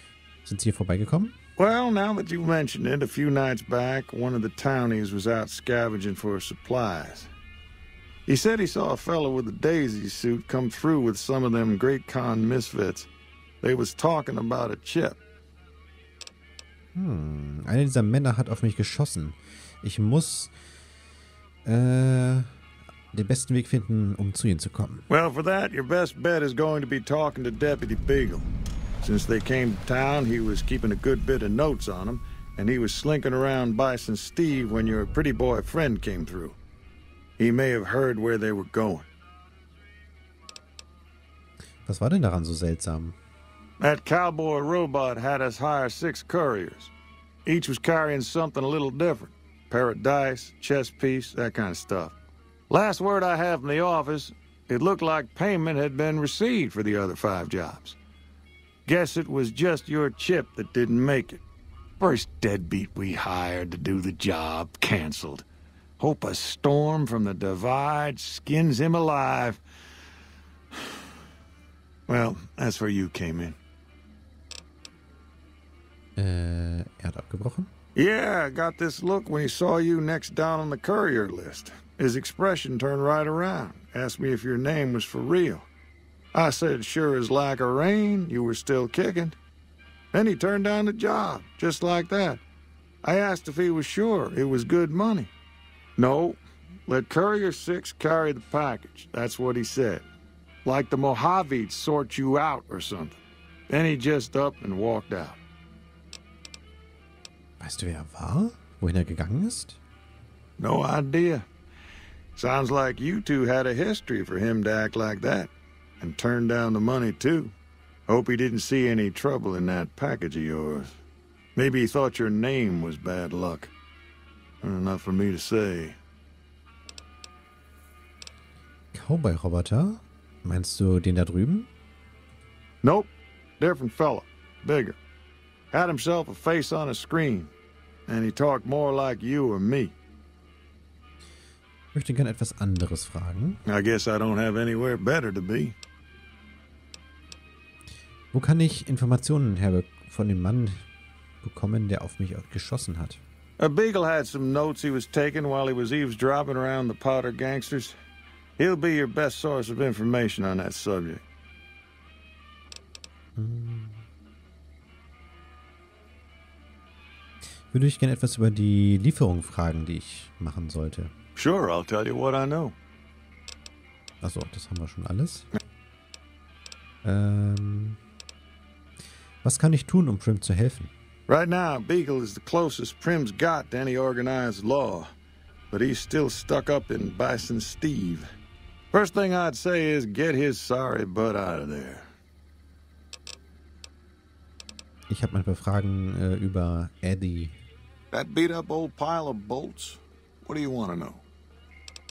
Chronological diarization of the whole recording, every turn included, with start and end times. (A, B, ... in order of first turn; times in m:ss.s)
0:00.4-0:01.3 A
0:01.6-0:07.3 B
0:08.3-0:13.1 B
0:13.6-0:15.2 B
0:16.9-0:20.5 A
0:21.6-0:22.5 A
0:23.1-0:25.1 A
0:25.1-0:28.5 B
0:29.0-0:36.6 B
0:37.4-0:39.1 B
0:41.8-0:43.2 A
0:43.8-0:46.9 B
0:47.4-0:52.1 B
0:52.7-0:58.0 B
0:58.8-1:01.4 B
1:02.0-1:05.4 B
1:06.0-1:09.6 B
1:12.1-1:13.6 B
1:16.2-1:17.7 A
1:17.9-1:25.6 B
1:26.3-1:29.4 B
1:30.1-1:32.4 B
1:33.0-1:35.3 B
1:36.0-1:40.0 B
1:40.6-1:43.2 B
1:43.7-1:45.4 B
1:47.6-1:49.8 A
1:50.6-1:51.4 B
1:52.4-1:57.5 B
1:58.1-2:00.9 B
2:01.6-2:03.7 B
2:04.6-2:06.0 B
2:08.9-2:11.7 A
2:12.8-2:15.0 B
2:15.7-2:17.5 B
2:18.1-2:19.9 B
2:21.9-2:23.6 A
2:23.6-2:25.7 B
2:28.3-2:30.8 A
2:31.4-2:33.2 A
2:33.6-2:37.9 B
2:38.6-2:41.2 B
2:43.4-2:44.0 A
2:47.7-2:51.1 A
2:51.4-2:52.7 B
2:54.2-2:55.5 A
2:57.0-2:58.0 A
2:59.4-3:00.9 A
3:01.3-3:05.1 B
3:05.7-3:08.2 B
3:08.9-3:12.0 B
3:15.1-3:17.6 A
3:18.1-3:21.2 B